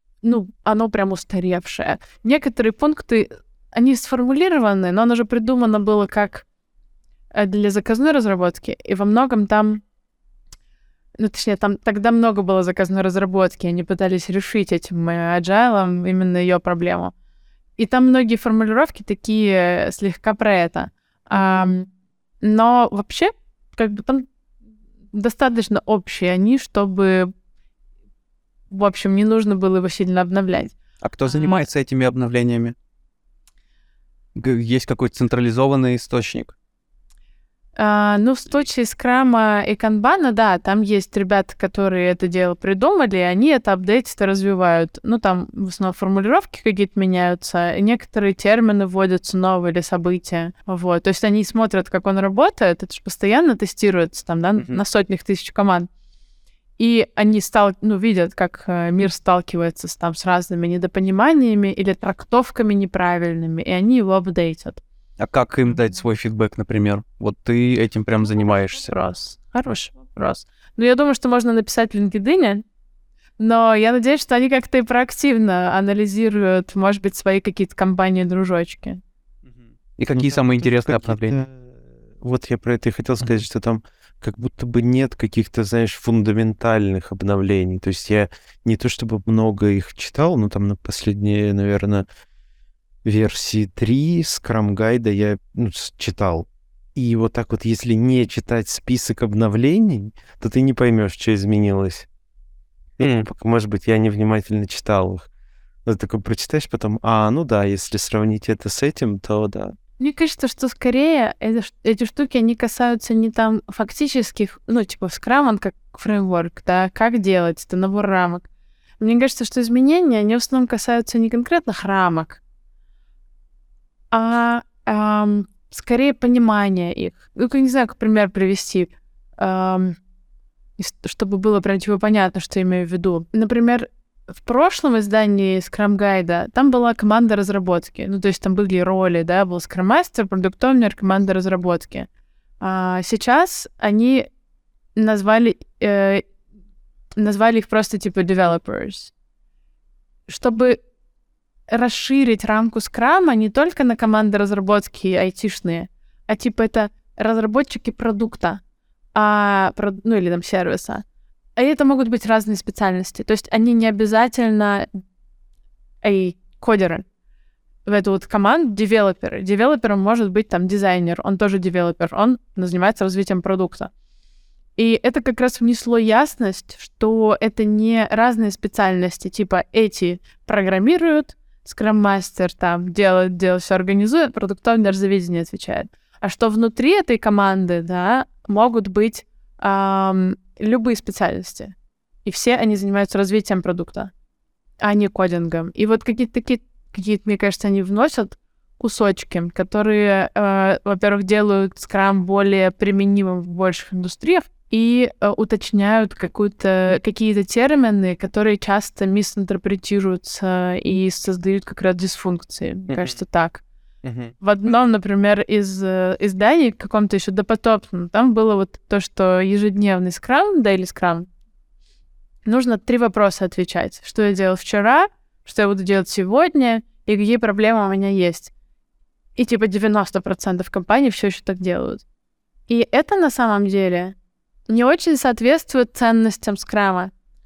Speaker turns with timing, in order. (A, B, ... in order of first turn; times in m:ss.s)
0:00.2-0:06.4 A
0:07.3-0:09.8 A
0:11.2-0:17.1 A
0:17.8-0:21.9 A
0:22.4-0:24.3 A
0:25.1-0:27.3 A
0:28.7-0:31.6 A
0:31.0-0:32.8 B
0:34.4-0:36.5 B
0:37.8-0:55.9 A
0:56.8-1:04.8 A
1:05.2-1:08.9 B
1:08.2-1:12.6 A
1:13.4-1:19.0 A
1:20.0-1:21.4 B
1:20.1-1:32.1 C
1:33.0-1:42.1 C
1:43.0-1:45.3 C
1:45.9-1:49.8 C
1:50.0-1:58.5 A
1:59.0-2:02.4 A
2:04.1-2:10.0 A
2:10.8-2:13.9 A
2:14.4-2:22.1 A
2:22.6-2:24.3 A
2:25.0-2:26.2 A
2:27.2-2:29.1 A
2:30.3-2:30.8 A
2:31.7-2:38.6 A
2:39.2-2:41.0 A
2:41.6-2:44.9 A
2:46.0-2:47.0 A
2:47.9-2:53.9 A
2:54.8-3:14.1 A
3:14.8-3:33.6 A
3:34.1-3:34.3 C
3:34.4-3:41.3 A
3:42.5-3:48.5 A
3:49.4-3:52.0 A
3:52.7-3:54.2 A
3:54.7-3:57.1 A